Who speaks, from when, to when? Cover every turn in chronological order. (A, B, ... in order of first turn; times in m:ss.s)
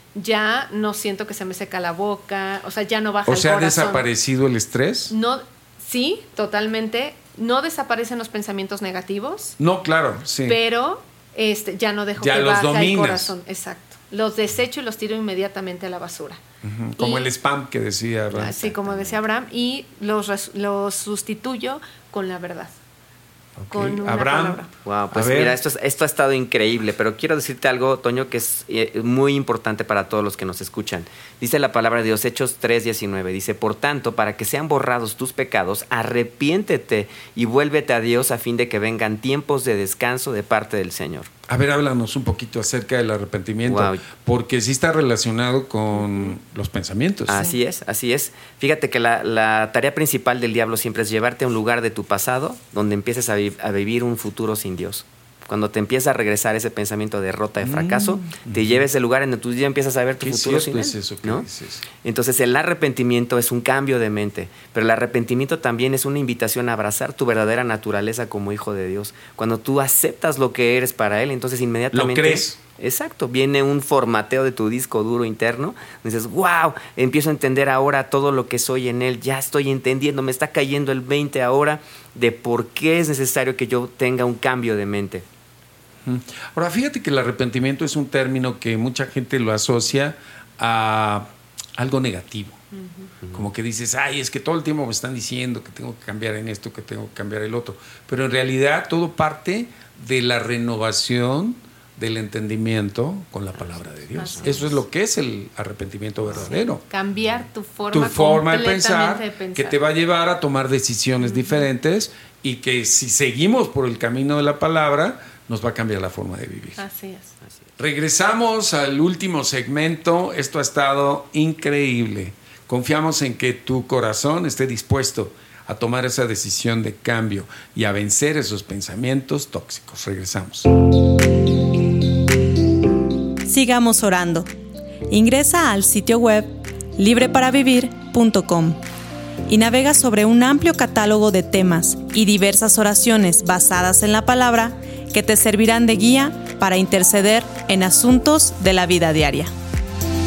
0:00.1-0:04.1 A
0:03.2-0:05.1 B
0:05.1-0:09.6 A
0:09.6-0:10.6 B
0:10.4-0:16.4 A
0:12.2-0:13.3 B
0:16.6-0:18.5 B
0:17.0-0:17.3 A
0:18.3-0:19.2 C
0:18.4-0:22.8 A
0:23.6-0:25.6 B
0:23.7-0:24.7 A
0:24.8-0:41.3 C
0:41.5-0:47.5 B
0:43.6-0:44.0 C
0:47.3-1:01.5 C
0:57.6-0:58.8 B
1:00.2-1:01.8 B
1:02.0-1:25.2 C
1:11.9-1:12.6 B
1:26.0-1:32.6 B
1:32.7-1:33.1 A
1:33.3-1:46.8 B
1:44.2-1:44.7 A
1:44.3-1:44.7 C
1:46.4-1:49.8 A
1:47.9-1:56.8 B
1:51.2-1:51.6 A
1:56.8-1:57.4 A
1:57.8-2:10.7 B
2:13.4-2:14.5 D
2:15.1-2:18.8 D
2:19.5-2:29.5 D